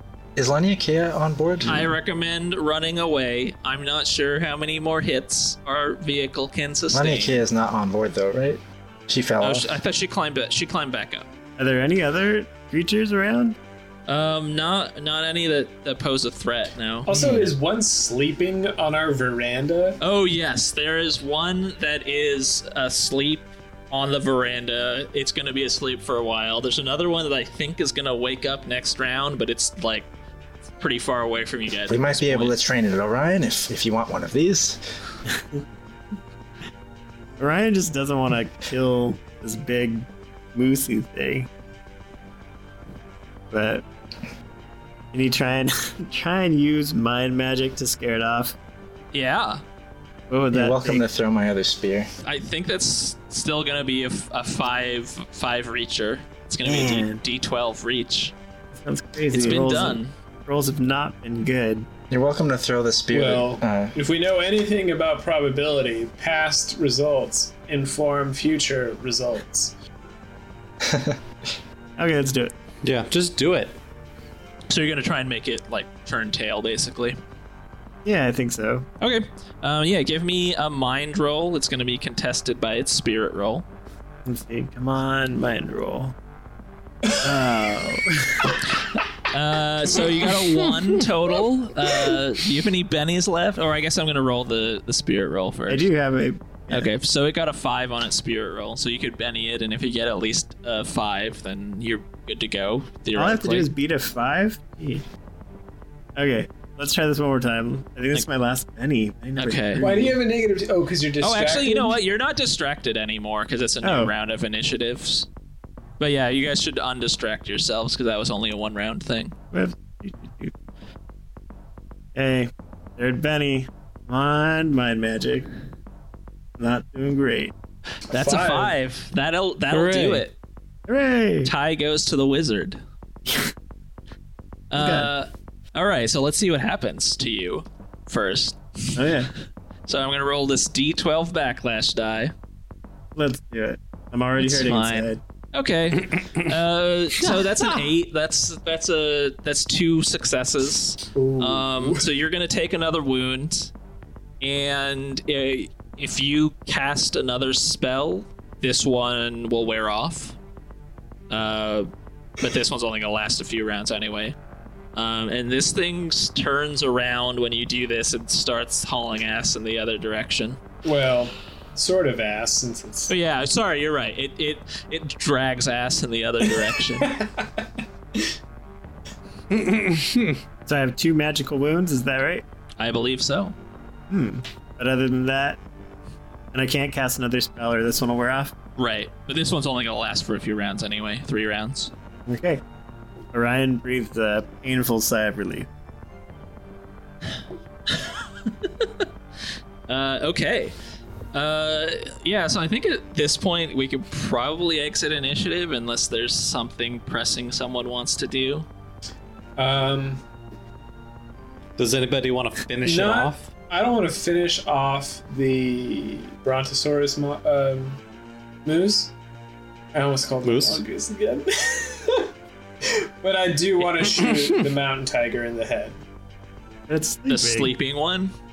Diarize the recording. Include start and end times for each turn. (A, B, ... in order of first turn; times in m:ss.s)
0:00.4-0:01.9 A
0:01.6-0:07.4 B
0:06.9-0:09.7 A
0:09.4-0:11.2 B
0:11.6-0:13.6 C
0:14.1-0:17.1 B
0:17.1-0:20.0 D
0:17.1-0:17.5 A
0:20.0-0:30.1 B
0:30.8-0:32.6 B
0:31.9-0:34.8 A
0:35.3-0:35.6 C
0:37.4-0:41.5 C
0:43.5-0:43.8 C
0:45.1-0:48.5 C
0:49.1-0:49.6 B
0:50.3-0:51.0 C
0:50.5-0:52.1 A
0:52.2-0:58.3 B
0:56.6-0:57.2 C
0:58.7-1:01.9 C
0:59.3-1:00.1 B
1:02.1-1:03.9 A
1:03.1-1:09.7 D
1:10.8-1:11.2 A
1:12.0-1:12.5 C
1:12.8-1:13.8 E
1:14.7-1:17.2 B
1:18.0-1:18.8 C
1:19.0-1:23.6 B
1:24.2-1:26.1 C
1:27.2-1:28.6 C
1:29.3-1:35.9 B
1:35.7-1:36.9 C
1:36.7-1:43.7 B
1:43.2-1:45.0 C
1:46.2-1:50.2 C
1:49.4-1:49.8 B
1:49.8-1:52.0 D
1:51.2-1:55.3 B
1:53.8-1:54.1 C
1:56.0-1:59.3 B
1:59.5-2:00.5 C
2:02.1-2:05.5 C
2:06.6-2:07.5 C
2:08.1-2:10.3 B
2:08.1-2:08.7 D
2:09.7-2:10.2 E
2:10.9-2:11.5 C
2:11.4-2:12.8 B
2:14.7-2:19.0 B
2:14.7-2:15.1 C
2:19.0-2:19.3 C
2:19.8-2:22.3 B
2:23.1-2:25.2 C
2:24.4-2:33.7 B
2:26.1-2:26.5 E
2:31.1-2:32.0 D
2:34.4-2:40.4 B
2:41.3-2:44.3 B
2:44.9-2:50.6 B
2:50.8-2:53.1 D
2:53.1-2:57.2 B
2:57.0-2:57.6 D
2:59.5-3:00.4 E
3:00.6-3:02.4 C
3:02.8-3:03.5 B
3:04.1-3:05.6 C
3:06.5-3:08.5 C
3:08.8-3:11.9 B
3:12.3-3:12.6 C
3:13.3-3:15.7 C
3:17.9-3:19.0 B
3:19.9-3:20.7 B
3:21.3-3:28.7 B
3:29.6-3:30.2 D
3:31.8-3:33.5 E
3:32.8-3:38.0 D
3:38.6-3:39.1 D
3:39.9-3:42.3 D
3:40.4-3:40.8 E
3:42.8-3:46.0 D
3:44.2-3:44.6 E
3:46.9-3:47.7 C
3:47.3-3:48.3 B